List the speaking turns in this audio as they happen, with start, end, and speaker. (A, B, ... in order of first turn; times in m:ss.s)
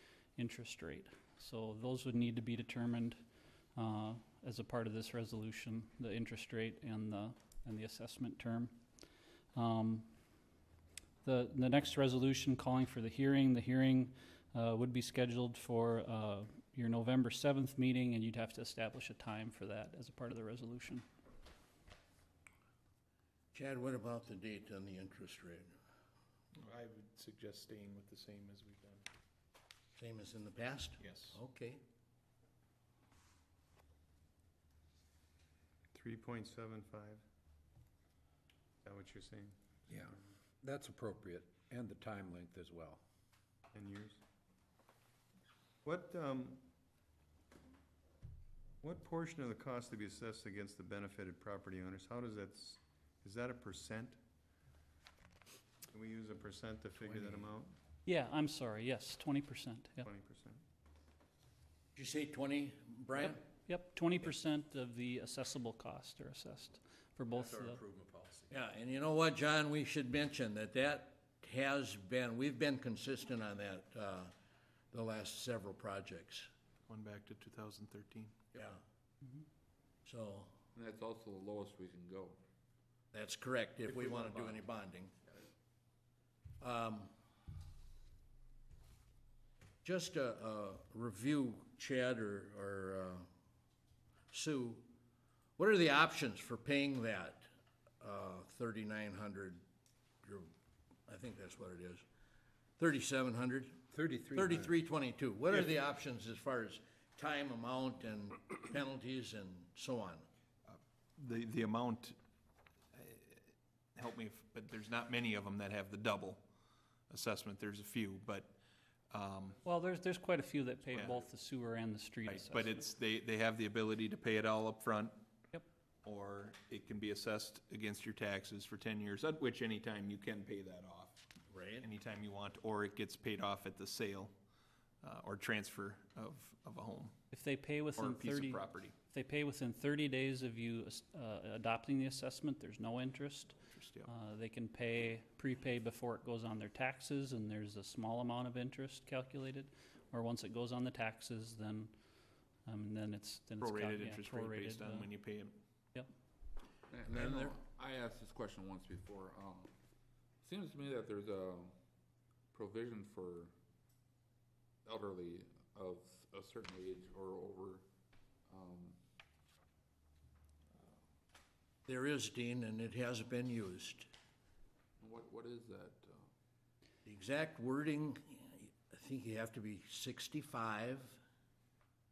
0:00.4-0:03.2 A
0:03.8-0:08.8 A
0:09.6-0:10.1 A
0:11.2-0:21.0 A
0:23.5-0:25.7 B
0:26.6-0:29.0 C
0:30.0-0:31.8 B
0:31.0-0:31.4 C
0:35.9-0:37.2 D
0:38.9-0:39.5 D
0:39.9-0:43.0 E
0:43.7-0:44.2 D
0:45.8-0:46.6 D
0:48.8-0:54.2 D
0:55.9-0:57.7 D
0:57.2-0:57.5 E
0:58.1-1:00.1 A
1:00.0-1:00.6 D
1:02.0-1:03.4 B
1:03.2-1:07.8 A
1:07.6-1:08.5 E
1:08.5-1:14.3 B
1:14.9-1:16.5 B
1:16.9-1:18.3 C
1:18.6-1:18.8 B
1:20.0-1:20.5 B
1:20.8-1:22.4 F
1:23.1-1:25.1 B
1:24.2-1:24.5 F
1:26.6-1:27.1 B
1:29.8-1:33.3 B
1:34.3-1:34.9 B
1:35.6-1:37.5 B
1:38.0-1:39.6 B
1:40.2-1:40.5 B
1:41.1-1:42.0 B
1:42.8-1:50.3 B
1:43.9-1:44.7 E
1:50.7-1:52.2 C
1:52.9-1:56.4 C
1:57.1-1:58.6 C
1:59.1-1:59.6 C
1:59.6-2:02.8 A
2:02.3-2:05.2 C
2:06.0-2:11.2 C
2:11.5-2:11.9 B
2:11.8-2:14.3 C
2:15.0-2:17.1 C
2:17.3-2:31.9 A
2:18.0-2:18.9 C
2:23.7-2:24.1 C
2:32.7-2:35.1 A
2:33.6-2:35.6 C
2:36.9-2:39.7 F
2:37.1-2:37.6 B
2:40.4-2:41.7 F
2:42.5-2:43.5 F
2:44.8-2:47.8 F
2:48.5-2:49.0 F
2:51.9-2:54.1 B
2:55.0-2:56.3 F
2:57.0-3:01.2 B